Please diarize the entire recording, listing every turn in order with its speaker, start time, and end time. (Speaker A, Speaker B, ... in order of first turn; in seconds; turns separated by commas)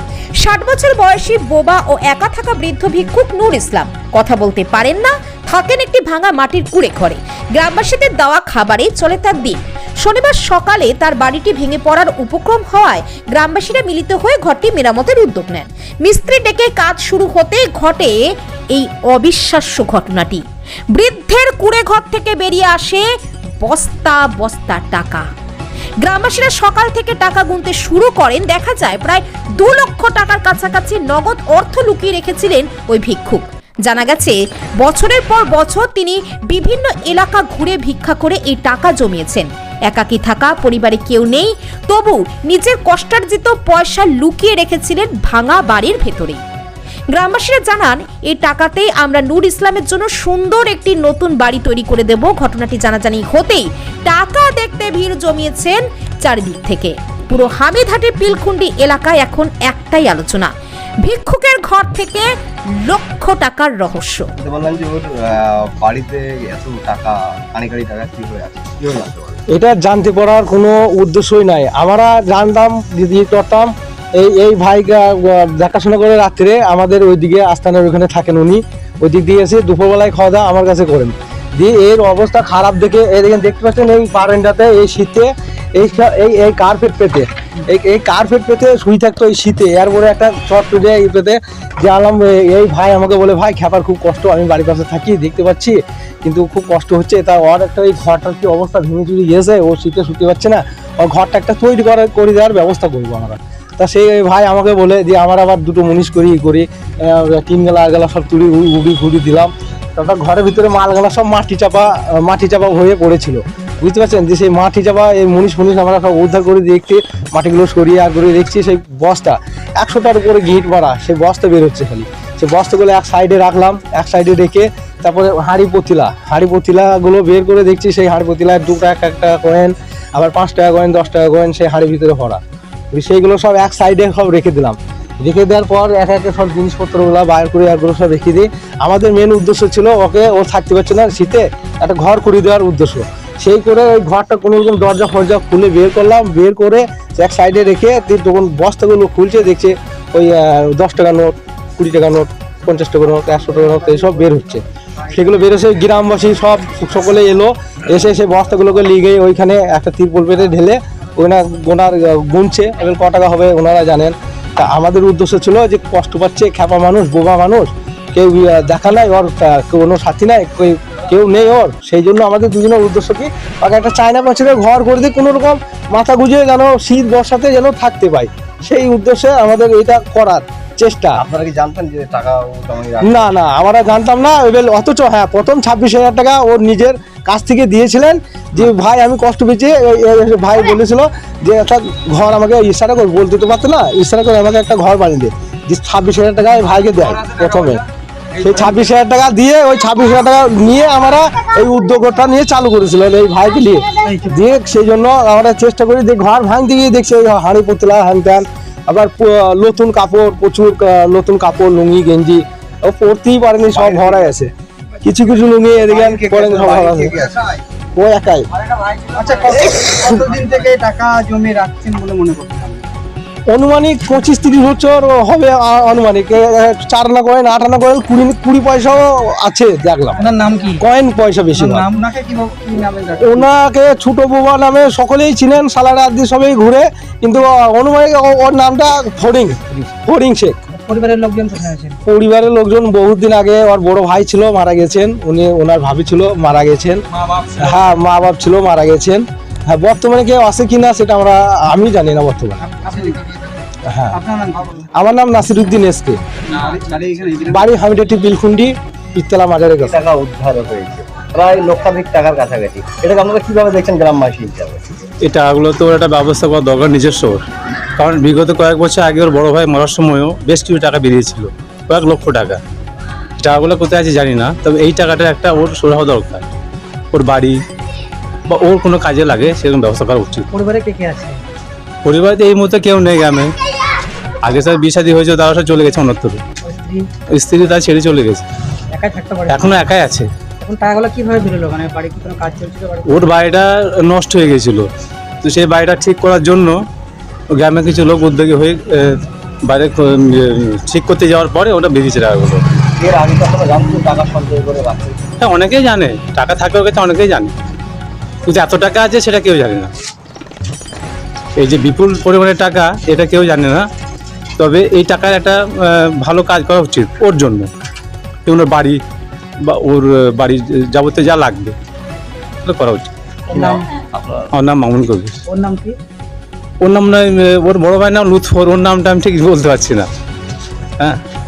Speaker A: 0.4-18.2, Speaker A: 18.7-23.1, Speaker A: 23.6-25.3, Speaker A: 26.0-46.4, Speaker A: 47.1-60.5, Speaker A: 61.0-64.3, Speaker B: 64.4-69.4, Speaker C: 69.5-132.4, Speaker C: 132.9-181.2, Speaker B: 181.1-183.3, Speaker C: 183.0-197.8, Speaker C: 198.4-214.5, Speaker B: 213.8-214.2, Speaker C: 215.0-217.2, Speaker D: 216.0-216.8, Speaker B: 216.7-217.1, Speaker C: 217.9-218.5, Speaker D: 219.1-222.9, Speaker C: 223.5-230.2, Speaker D: 230.2-230.8, Speaker C: 230.8-231.9, Speaker D: 231.5-233.5, Speaker C: 233.2-240.6, Speaker E: 240.7-242.0, Speaker C: 242.0-252.7, Speaker D: 252.7-253.2, Speaker C: 253.9-254.2, Speaker D: 254.1-254.7, Speaker C: 255.0-256.2, Speaker D: 256.5-257.7, Speaker C: 257.5-260.0, Speaker B: 259.8-264.8, Speaker F: 265.2-267.4, Speaker F: 268.0-272.6, Speaker F: 273.4-276.4, Speaker F: 277.1-277.6, Speaker F: 278.5-280.5, Speaker E: 280.5-281.4, Speaker F: 282.0-283.5, Speaker F: 284.4-286.4, Speaker E: 286.6-287.1, Speaker F: 287.3-288.4, Speaker E: 288.9-289.8, Speaker F: 289.5-290.3, Speaker E: 290.6-293.3, Speaker F: 293.0-294.9, Speaker F: 295.4-296.8, Speaker F: 297.6-302.6, Speaker B: 303.0-305.2, Speaker F: 305.4-307.5, Speaker F: 308.4-309.9, Speaker F: 311.6-313.8, Speaker F: 314.6-317.7, Speaker F: 318.4-319.0, Speaker F: 319.6-321.8, Speaker F: 322.6-323.7, Speaker E: 323.5-323.8, Speaker F: 324.5-325.3, Speaker E: 325.5-326.0, Speaker F: 326.8-330.1